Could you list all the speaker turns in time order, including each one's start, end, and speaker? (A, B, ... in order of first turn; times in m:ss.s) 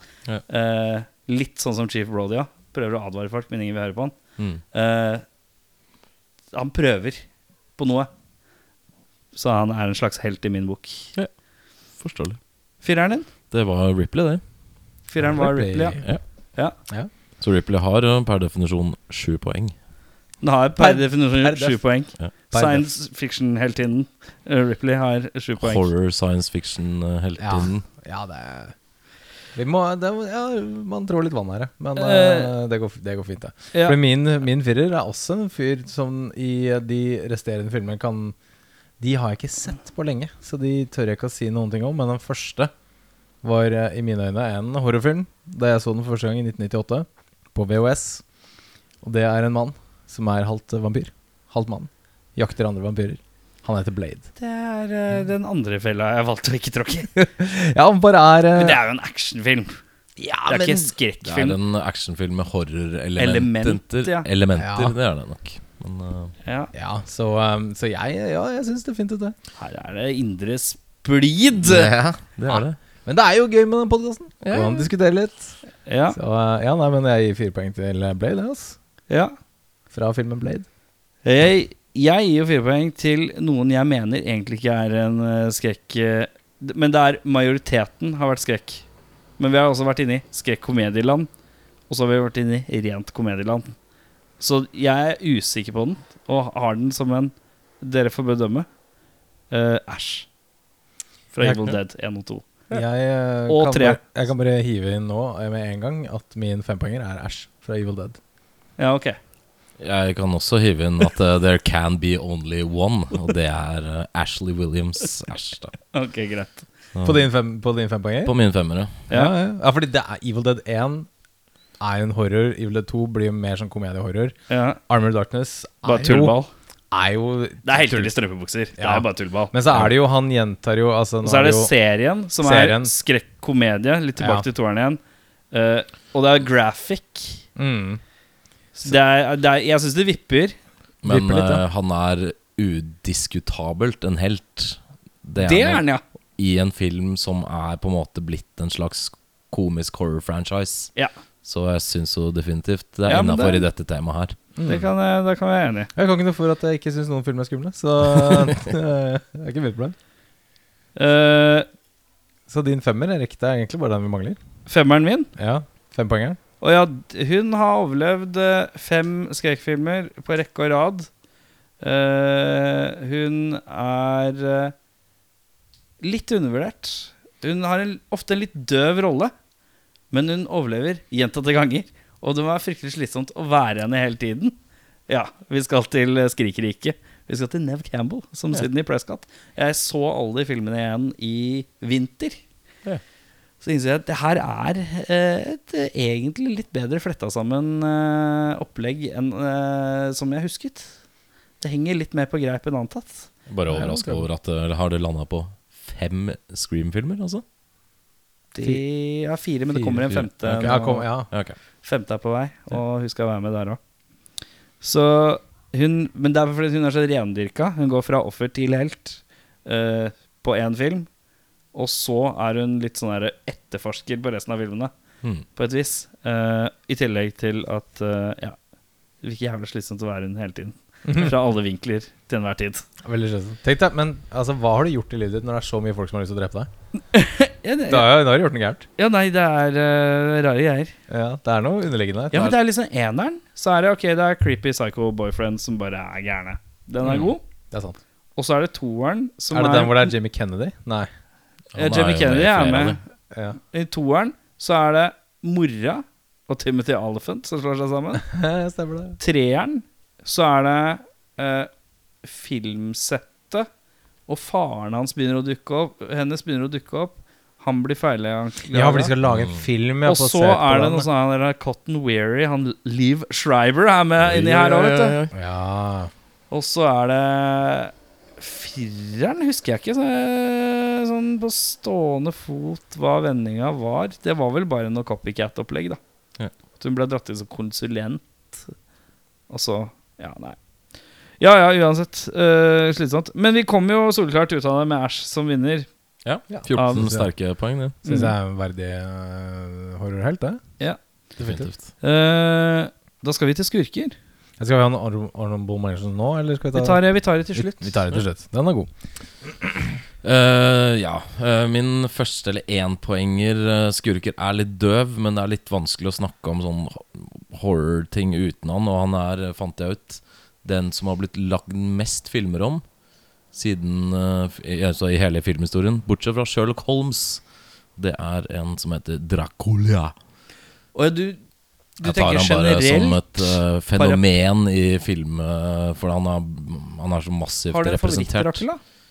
0:00.5-0:04.2 A
0:04.7-0:05.2 A
0:06.5-0:07.2 A
0:07.8-0:08.1 A
0:09.3-0:11.1 A
0:12.0-0:12.4 B
0:12.8-0:13.3 A
0:13.5-0:14.4 B
0:15.1-0:16.0 A
0:15.2-0:16.1 C
0:17.4-0:19.7 B
0:20.4-0:25.9 A
0:20.8-0:21.8 C
0:22.5-0:22.9 C
0:25.6-0:27.8 B
0:27.4-0:28.8 C
0:29.6-0:38.4 C
0:32.0-0:32.5 A
0:39.0-0:42.7 C
0:43.4-0:48.2 C
0:49.0-0:54.3 C
0:54.4-0:57.1 A
0:57.2-0:58.8 C
0:58.6-0:59.8 A
1:00.2-1:00.9 C
1:00.5-1:01.6 A
1:01.2-1:06.3 B
1:03.2-1:04.3 A
1:04.6-1:05.0 C
1:06.4-1:06.7 A
1:06.7-1:09.4 C
1:09.6-1:11.9 A
1:11.6-1:12.8 B
1:12.5-1:15.6 C
1:14.4-1:14.9 B
1:15.9-1:16.2 A
1:16.1-1:18.8 C
1:19.9-1:20.7 C
1:21.2-1:28.8 A
1:29.4-1:31.3 A
1:31.9-1:33.8 A
1:34.4-1:38.7 A
1:39.5-1:40.3 A
1:41.3-1:42.6 A
1:41.4-1:41.8 C
1:42.7-1:48.2 C
1:43.5-1:44.0 A
1:48.8-1:49.2 A
1:49.8-1:55.8 B
1:55.9-1:56.7 A
1:57.0-1:57.3 B
1:57.0-1:58.3 C
1:58.2-1:59.0 B
1:59.1-2:01.1 C
2:01.8-2:04.4 C
2:04.5-2:04.8 A
2:04.9-2:06.4 C
2:05.8-2:06.5 A
2:06.9-2:08.1 C
2:07.6-2:09.6 A
2:08.8-2:11.7 C
2:11.2-2:15.0 A
2:12.4-2:12.9 C
2:14.2-2:14.5 C
2:15.5-2:17.4 A
2:17.6-2:18.0 C
2:18.8-2:20.6 A
2:21.0-2:25.8 B
2:21.1-2:21.6 C
2:25.4-2:26.0 A
2:26.4-2:30.9 B
2:31.4-2:34.4 B
2:33.1-2:33.6 A
2:34.6-2:34.9 C
2:34.6-2:35.9 A
2:36.0-2:40.0 C
2:41.0-2:41.7 A
2:42.5-2:44.4 C
2:44.7-2:45.3 A
2:45.4-2:46.4 C
2:46.6-2:51.1 A
2:51.8-2:54.7 A
2:56.0-2:59.3 A
3:00.1-3:04.6 A
3:05.1-3:12.4 A
3:13.6-3:20.9 A
3:21.6-3:23.3 A
3:23.5-3:27.4 B
3:23.7-3:24.3 C
3:28.5-3:31.1 A
3:29.7-3:31.3 C
3:30.1-3:30.7 B
3:31.3-3:31.6 B
3:31.8-3:33.8 A
3:34.8-3:41.1 A
3:41.7-3:44.9 A
3:45.6-3:48.6 A
3:49.2-3:52.9 A
3:51.1-3:51.3 C
3:53.0-3:56.7 C
3:57.1-3:58.2 A
3:57.9-3:58.8 C
3:59.0-4:00.9 A
4:01.1-4:02.6 C
4:02.3-4:07.4 A
4:07.0-4:07.3 B
4:07.7-4:08.0 C
4:08.4-4:10.1 A
4:09.5-4:11.1 C
4:11.7-4:13.0 B
4:11.8-4:13.0 A
4:13.3-4:13.6 C
4:13.6-4:18.2 A
4:18.2-4:19.2 C
4:19.2-4:21.7 A
4:22.2-4:23.7 A
4:24.3-4:29.1 A
4:28.7-4:31.1 C
4:29.2-4:29.6 B
4:30.0-4:35.2 A
4:34.2-4:35.3 B
4:35.3-4:36.1 C
4:36.5-4:46.0 A
4:46.8-4:48.7 A
4:49.5-4:50.6 A
4:51.4-4:55.9 A
4:56.2-4:58.0 B
4:56.5-4:57.3 C
4:56.7-4:57.0 A
4:58.0-4:58.3 A
4:58.0-5:00.6 C
5:01.4-5:01.7 C
5:01.4-5:01.8 B
5:02.0-5:04.2 A
5:04.6-5:07.0 C
5:06.7-5:08.0 A
5:07.5-5:08.9 C
5:09.4-5:09.7 C
5:10.2-5:22.8 B
5:23.5-5:27.4 B
5:28.0-5:30.1 B
5:31.0-5:31.4 A
5:32.0-5:34.2 A
5:32.0-5:38.7 B
5:37.7-5:38.8 A